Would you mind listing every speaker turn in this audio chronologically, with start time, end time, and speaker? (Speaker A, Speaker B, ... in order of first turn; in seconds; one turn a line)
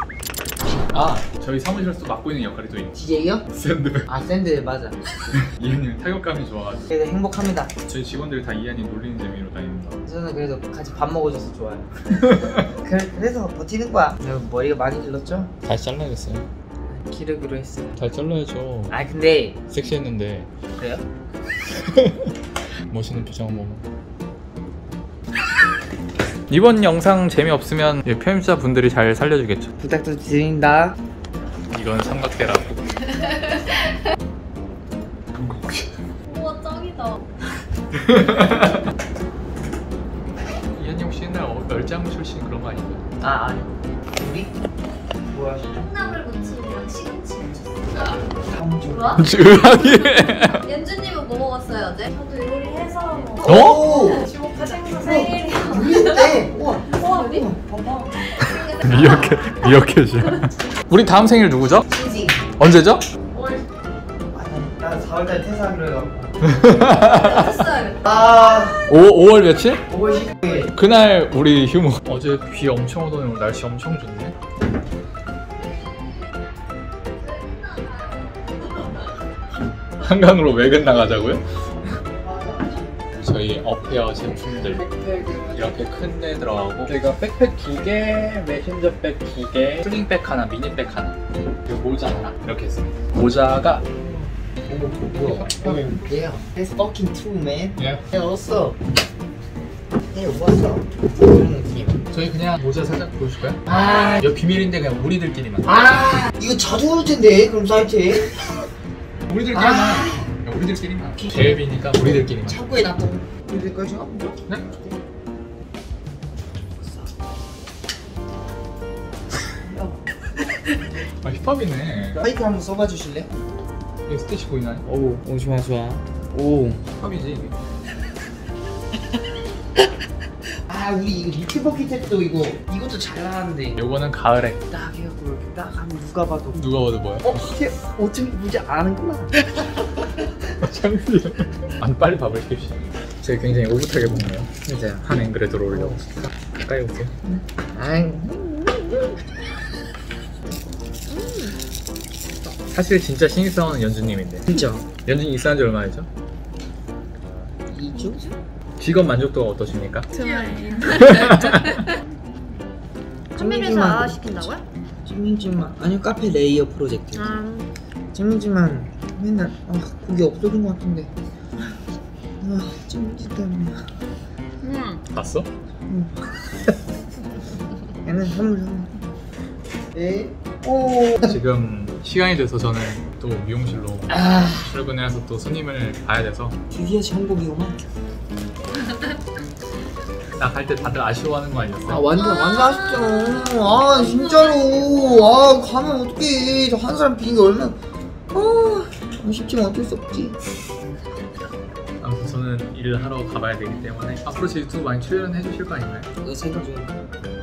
Speaker A: 0.9-4.1
Speaker B: 2.9-3.4
Speaker B: 4.1-5.3
Speaker A: 5.3-6.9
Speaker B: 6.9-7.7
Speaker A: 7.8-10.0
Speaker B: 10.0-11.9
Speaker A: 12.1-12.7
Speaker B: 12.6-15.5
Speaker A: 15.6-16.4
Speaker B: 16.9-18.0
Speaker A: 18.0-18.9
Speaker B: 18.9-19.6
Speaker A: 19.7-20.5
Speaker B: 20.8-21.0
Speaker A: 21.7-22.3
Speaker A: 22.9-23.8
Speaker A: 26.5-29.7
Speaker B: 29.8-30.9
Speaker A: 31.7-33.0
Speaker C: 33.3-33.9
Speaker A: 35.3-36.0
Speaker C: 36.3-37.2
Speaker A: 37.9-38.9
Speaker A: 40.7-43.1
Speaker B: 43.2-44.5
Speaker B: 45.2-45.9
Speaker C: 45.7-48.2
Speaker B: 48.0-49.2
Speaker C: 48.9-56.3
Speaker A: 49.2-50.7
Speaker B: 53.4-54.3
Speaker A: 53.4-53.9
Speaker B: 54.9-58.1
Speaker C: 56.9-57.5
Speaker C: 58.3-59.3
Speaker A: 58.4-61.9
Speaker B: 61.9-62.4
Speaker A: 62.6-63.0
Speaker C: 63.3-63.7
Speaker B: 64.3-66.3
Speaker A: 66.4-67.7
Speaker C: 67.0-68.1
Speaker B: 68.0-68.9
Speaker A: 68.9-69.9
Speaker B: 69.9-70.7
Speaker A: 70.6-74.3
Speaker C: 77.2-78.5
Speaker A: 80.0-81.4
Speaker B: 82.2-83.0
Speaker A: 83.2-93.8
Speaker B: 84.9-85.3
Speaker B: 93.9-98.8
Speaker A: 95.2-95.9
Speaker A: 97.8-98.1
Speaker B: 100.1-102.0
Speaker A: 102.1-105.8
Speaker B: 103.7-104.2
Speaker B: 105.6-108.5
Speaker A: 109.3-112.6
Speaker B: 109.5-110.3
Speaker B: 111.0-115.0
Speaker B: 119.5-120.0
Speaker A: 121.2-122.2
Speaker B: 122.1-123.3
Speaker A: 124.1-124.9
Speaker B: 124.8-126.8
Speaker A: 127.0-127.6
Speaker B: 130.7-133.8
Speaker A: 133.8-134.7
Speaker B: 134.7-136.6
Speaker A: 136.5-137.5
Speaker B: 137.2-139.4
Speaker A: 140.6-146.0
Speaker B: 144.6-145.1
Speaker B: 145.7-146.2
Speaker A: 146.6-147.2
Speaker B: 147.2-149.2
Speaker C: 151.1-151.6
Speaker A: 152.7-156.1
Speaker B: 154.5-154.8
Speaker B: 157.7-158.2
Speaker C: 158.1-158.3
Speaker A: 158.8-160.1
Speaker C: 160.1-161.8
Speaker A: 160.8-161.9
Speaker C: 163.3-164.6
Speaker B: 163.3-164.3
Speaker B: 165.0-167.4
Speaker C: 167.1-167.7
Speaker B: 168.1-171.1
Speaker B: 172.4-173.8
Speaker C: 174.6-175.0
Speaker A: 175.1-175.5
Speaker B: 175.9-176.1
Speaker B: 178.0-178.9
Speaker B: 179.9-181.4
Speaker A: 181.2-186.6
Speaker B: 184.1-184.7
Speaker B: 186.7-187.8
Speaker A: 190.3-192.1
Speaker B: 191.8-197.8
Speaker C: 192.2-193.3
Speaker C: 194.0-195.3
Speaker B: 198.3-200.4
Speaker A: 202.0-206.1
Speaker B: 206.2-207.0